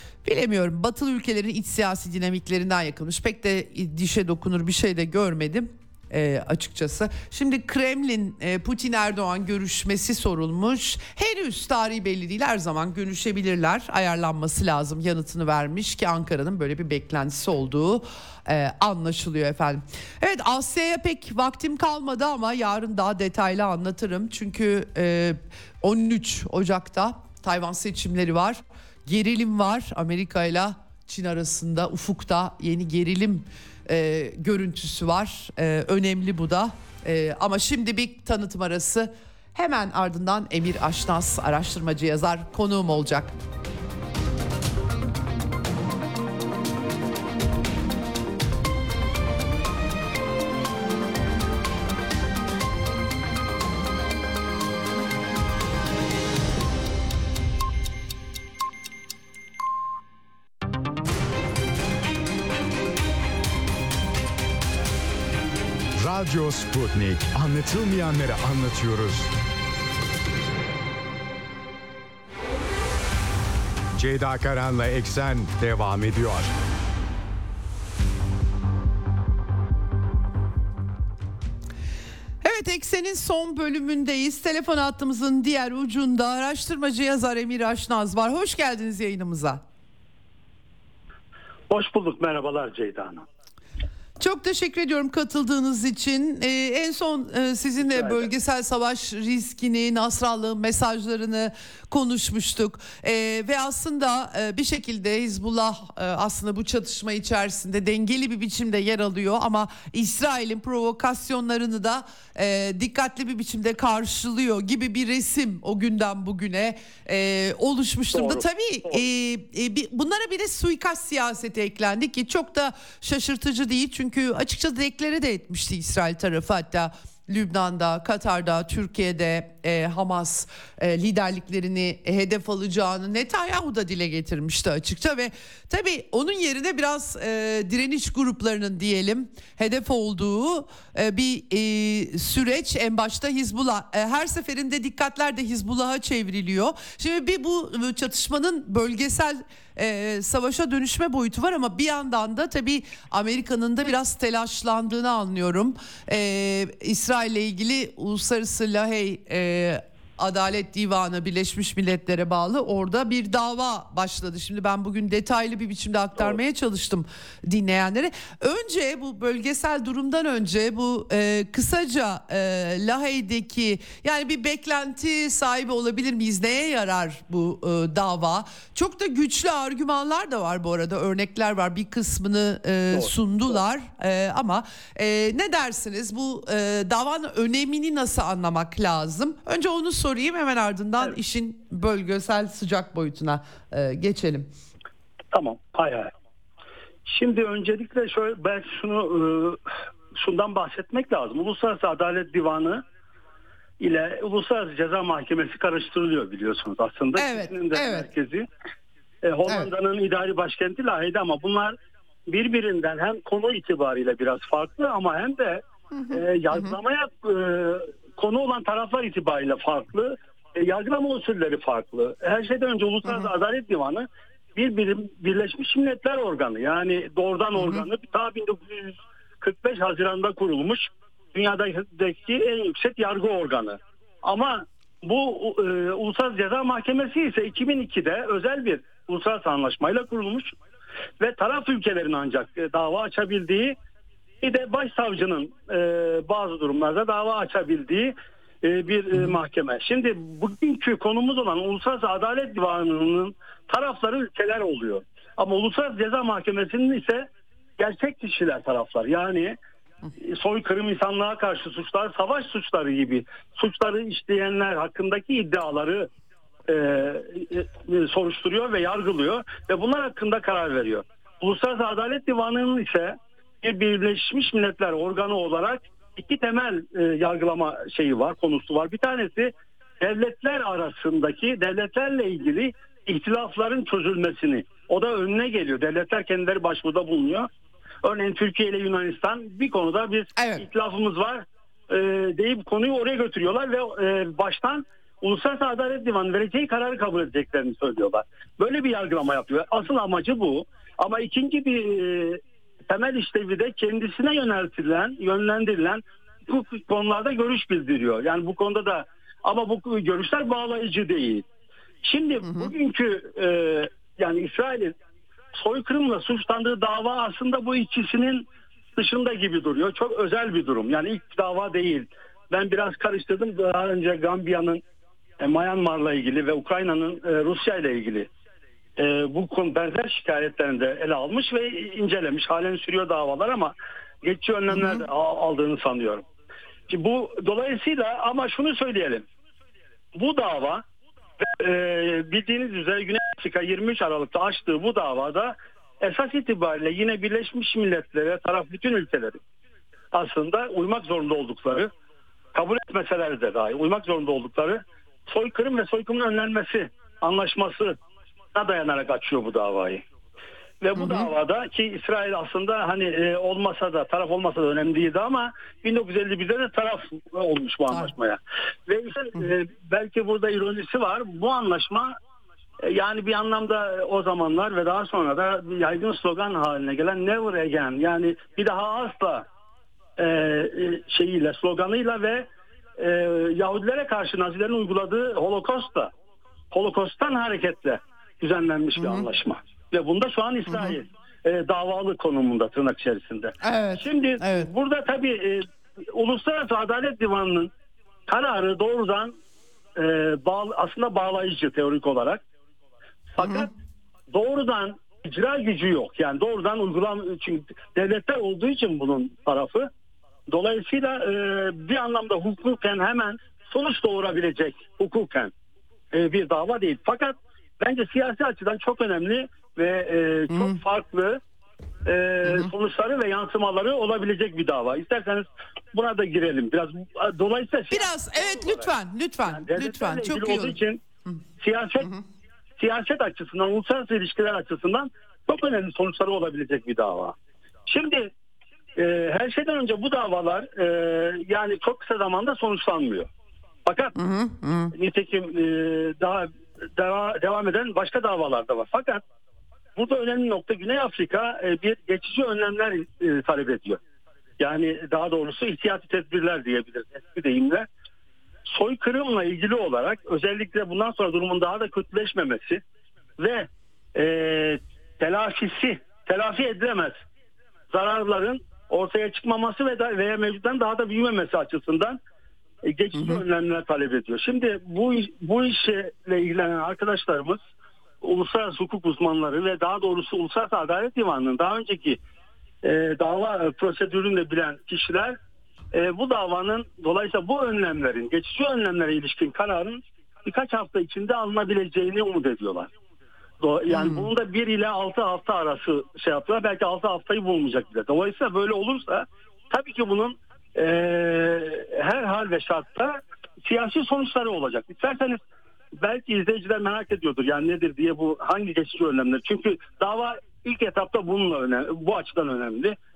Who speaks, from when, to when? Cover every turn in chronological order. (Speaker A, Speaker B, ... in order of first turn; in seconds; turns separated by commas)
Speaker A: 0.2-43.3, Speaker B: 66.0-69.3, Speaker B: 73.9-76.5, Speaker A: 82.4-89.6, Speaker C: 91.7-93.2, Speaker A: 94.2-194.5, Speaker C: 97.8-98.3, Speaker C: 118.1-119.0, Speaker C: 195.3-196.1, Speaker C: 197.1-202.8, Speaker C: 203.8-208.4, Speaker A: 207.1-208.1, Speaker C: 209.2-211.7, Speaker C: 212.3-240.5, Speaker A: 215.9-216.8, Speaker A: 227.6-227.9, Speaker C: 241.2-243.8, Speaker C: 244.4-259.6, Speaker C: 260.2-266.1, Speaker C: 266.7-287.5, Speaker C: 288.0-311.4, Speaker A: 290.4-290.6, Speaker C: 312.0-314.9, Speaker A: 312.4-312.7, Speaker C: 315.5-324.8, Speaker C: 325.4-328.3, Speaker C: 329.0-336.2, Speaker C: 336.9-339.2, Speaker C: 340.1-340.8, Speaker C: 341.5-349.4, Speaker C: 350.1-351.9, Speaker C: 352.5-358.0, Speaker C: 358.5-360.0, Speaker C: 360.8-372.1, Speaker A: 360.9-361.3, Speaker C: 372.8-379.4, Speaker C: 380.2-386.1, Speaker C: 386.7-397.7, Speaker A: 388.9-389.3, Speaker A: 390.7-390.9, Speaker A: 393.6-394.7, Speaker C: 398.3-399.3, Speaker C: 399.9-402.4, Speaker C: 403.3-403.7, Speaker A: 403.4-403.7, Speaker C: 404.3-409.9, Speaker C: 410.5-415.5, Speaker C: 416.1-421.4, Speaker A: 420.5-420.8, Speaker C: 422.0-428.9, Speaker A: 422.4-422.7, Speaker A: 427.9-431.4, Speaker C: 429.5-431.0, Speaker C: 431.6-432.1, Speaker C: 432.8-437.3, Speaker C: 437.9-438.3, Speaker C: 438.9-443.3, Speaker C: 443.9-444.1, Speaker A: 444.1-444.9, Speaker C: 444.9-449.2, Speaker C: 449.9-454.0, Speaker C: 454.6-457.9, Speaker C: 458.6-462.8, Speaker C: 463.4-467.1, Speaker C: 467.9-472.2, Speaker C: 472.8-477.6, Speaker A: 473.1-473.4, Speaker C: 478.2-482.2, Speaker C: 482.8-485.4, Speaker C: 485.9-492.9, Speaker C: 493.6-505.4, Speaker A: 493.9-494.3, Speaker C: 505.9-513.0